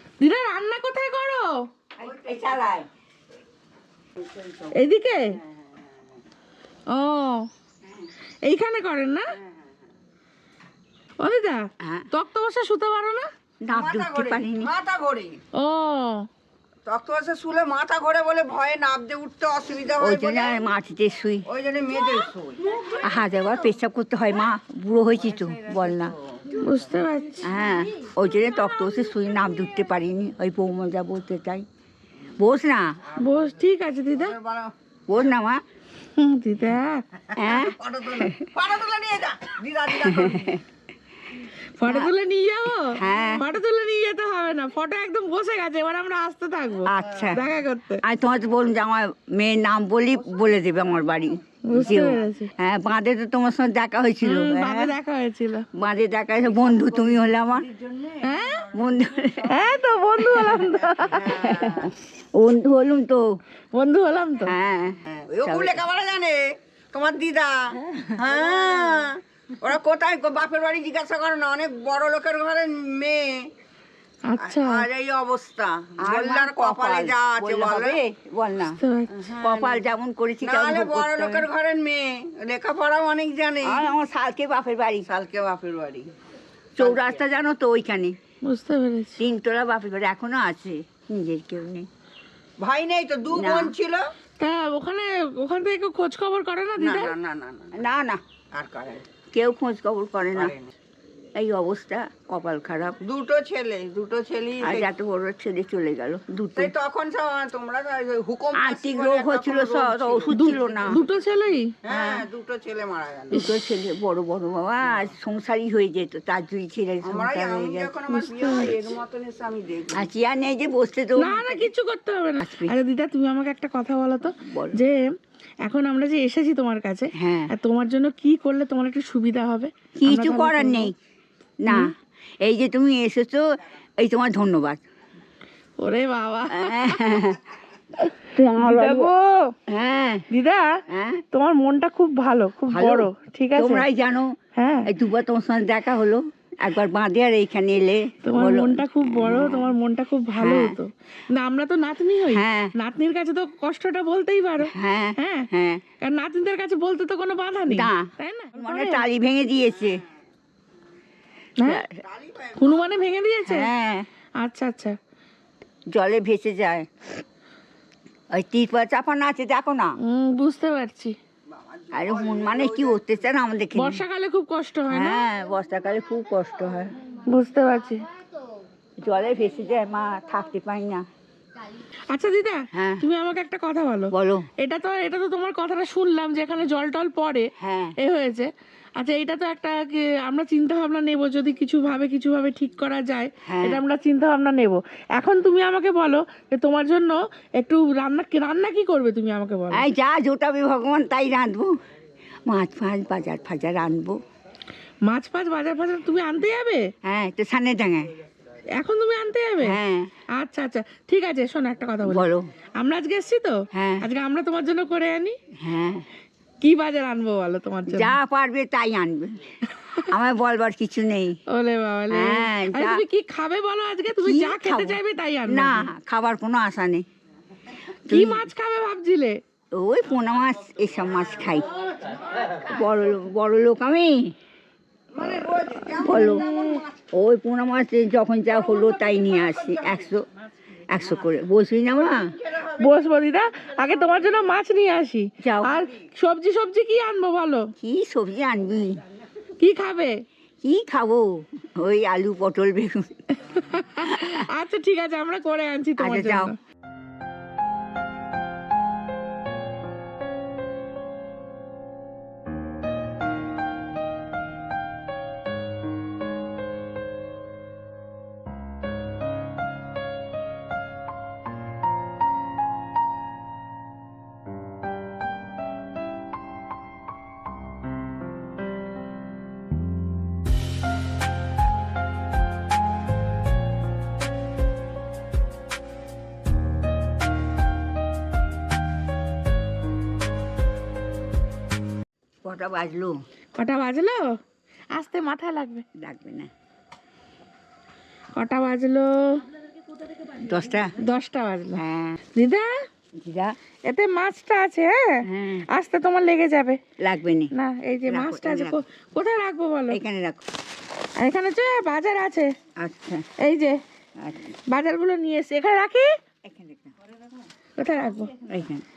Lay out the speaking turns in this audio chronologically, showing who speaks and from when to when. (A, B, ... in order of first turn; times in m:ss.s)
0:00.2-0:01.6 A
0:02.0-0:02.9 B
0:04.7-0:05.4 A
0:06.9-0:07.5 A
0:08.4-0:09.3 A
0:11.2-0:13.3 A
0:11.8-0:12.1 B
0:13.6-0:14.7 B
0:13.7-0:15.4 C
0:15.6-0:16.3 A
0:16.9-0:20.6 C
0:20.0-0:21.5 B
0:21.5-0:23.0 C
0:23.0-0:26.2 B
0:26.5-0:27.5 A
0:27.4-0:31.6 B
0:32.4-0:33.0 B
0:33.1-0:34.4 A
0:34.2-0:34.7 C
0:35.1-0:35.6 B
0:36.2-0:37.0 A
0:37.3-0:40.6 C
0:37.4-0:38.5 B
0:40.0-0:40.6 B
0:41.8-0:48.0 A
0:41.9-0:42.1 B
0:42.8-0:43.5 B
0:46.9-0:47.4 B
0:48.0-0:55.0 B
0:51.6-0:52.5 A
0:54.2-0:55.7 A
0:55.8-0:57.7 B
0:57.7-0:58.6 C
0:58.2-0:58.7 A
0:58.7-0:59.6 B
0:59.5-1:01.4 A
1:00.4-1:03.2 B
1:01.3-1:01.8 C
1:03.7-1:04.5 A
1:04.5-1:05.8 B
1:05.1-1:13.5 C
1:14.3-1:14.9 A
1:14.4-1:18.0 C
1:16.0-1:18.8 B
1:18.6-1:19.3 A
1:19.2-1:19.8 C
1:19.3-1:21.5 B
1:20.4-1:23.9 C
1:23.6-1:25.1 B
1:25.1-1:26.1 C
1:26.8-1:28.2 B
1:26.8-1:27.2 C
1:28.4-1:29.2 A
1:29.2-1:31.9 B
1:32.6-1:34.1 C
1:33.3-1:33.8 B
1:34.4-1:37.1 A
1:36.8-1:37.8 C
1:37.7-1:38.2 B
1:38.5-1:39.1 C
1:39.3-1:40.5 B
1:40.4-1:40.7 C
1:41.4-1:43.0 B
1:43.0-1:44.9 C
1:44.6-1:46.7 B
1:46.6-1:50.9 C
1:48.5-1:51.0 B
1:50.3-1:51.8 A
1:51.8-1:53.5 C
1:51.9-1:52.3 B
1:53.3-1:58.0 B
1:53.4-1:53.8 A
1:57.0-2:00.1 C
1:58.1-1:58.8 A
1:59.9-2:01.7 B
2:01.2-2:05.0 A
2:02.4-2:02.7 B
2:04.4-2:04.8 B
2:05.6-2:10.9 A
2:07.2-2:07.5 B
2:10.0-2:10.9 B
2:11.6-2:13.4 B
2:11.7-2:11.9 A
2:14.0-2:14.8 B
2:15.8-2:17.2 A
2:16.5-2:17.6 B
2:18.3-2:19.1 B
2:18.6-2:19.6 A
2:19.7-2:20.2 B
2:20.3-2:20.8 A
2:20.9-2:21.2 B
2:21.3-2:23.8 A
2:22.7-2:24.3 B
2:24.6-2:24.9 A
2:24.9-2:29.7 B
2:28.2-2:35.5 A
2:30.4-2:30.8 B
2:32.3-2:32.7 B
2:34.6-2:35.8 B
2:36.0-2:39.0 A
2:37.7-2:40.0 B
2:41.6-2:41.8 A
2:41.6-2:42.0 B
2:42.0-2:42.8 C
2:42.5-2:43.7 A
2:43.4-2:44.1 B
2:44.4-2:45.0 A
2:45.9-2:47.1 B
2:48.3-2:50.0 B
2:50.0-2:51.2 A
2:51.7-2:52.9 C
2:51.9-2:54.0 B
2:53.8-2:55.2 A
2:54.9-2:56.9 B
2:57.2-2:58.0 A
2:59.0-3:01.0 B
3:02.1-3:19.9 A
3:02.7-3:03.0 B
3:04.1-3:04.5 B
3:07.6-3:08.0 B
3:13.4-3:13.8 B
3:19.7-3:21.7 B
3:22.5-3:24.2 B
3:25.1-3:26.9 A
3:27.0-3:28.1 B
3:28.8-3:29.8 A
3:29.6-3:30.1 B
3:30.4-3:35.4 A
3:32.0-3:32.5 B
3:33.7-3:34.0 B
3:35.6-3:36.0 B
3:36.6-3:38.2 A
3:37.9-3:39.5 B
3:39.7-3:40.1 A
3:40.1-3:41.4 B
3:41.5-3:45.9 A
3:42.1-3:43.0 B
3:44.1-3:47.0 B
3:48.1-3:48.5 B
3:48.1-3:49.4 A
3:49.7-3:51.7 B
3:52.5-3:54.3 B
3:55.1-3:57.0 C
3:55.9-3:56.5 B
3:56.0-3:56.8 A
3:57.1-4:00.2 B
4:00.9-4:02.4 B
4:02.5-4:02.8 C
4:02.7-4:07.7 A
4:05.4-4:05.8 B
4:07.8-4:09.0 B
4:09.6-4:10.2 A
4:10.6-4:13.2 B
4:13.4-4:16.6 A
4:14.1-4:14.4 B
4:16.0-4:16.5 B
4:52.4-4:53.2 B
4:53.6-4:54.3 A
4:54.9-4:55.8 A
4:56.0-4:56.5 B
4:58.3-4:59.5 A
5:00.3-5:00.9 B
5:01.0-5:01.8 A
5:01.8-5:02.2 B
5:02.3-5:02.7 A
5:03.2-5:03.6 B
5:03.9-5:06.8 A
5:05.3-5:05.7 B
5:07.0-5:07.5 B
5:07.5-5:10.0 A
5:08.1-5:08.8 B
5:09.9-5:10.4 B
5:11.2-5:12.5 A
5:12.8-5:13.3 B
5:13.4-5:13.8 A
5:14.2-5:14.6 B
5:14.7-5:16.1 A
5:16.4-5:16.9 B
5:17.8-5:18.3 A
5:18.5-5:18.8 B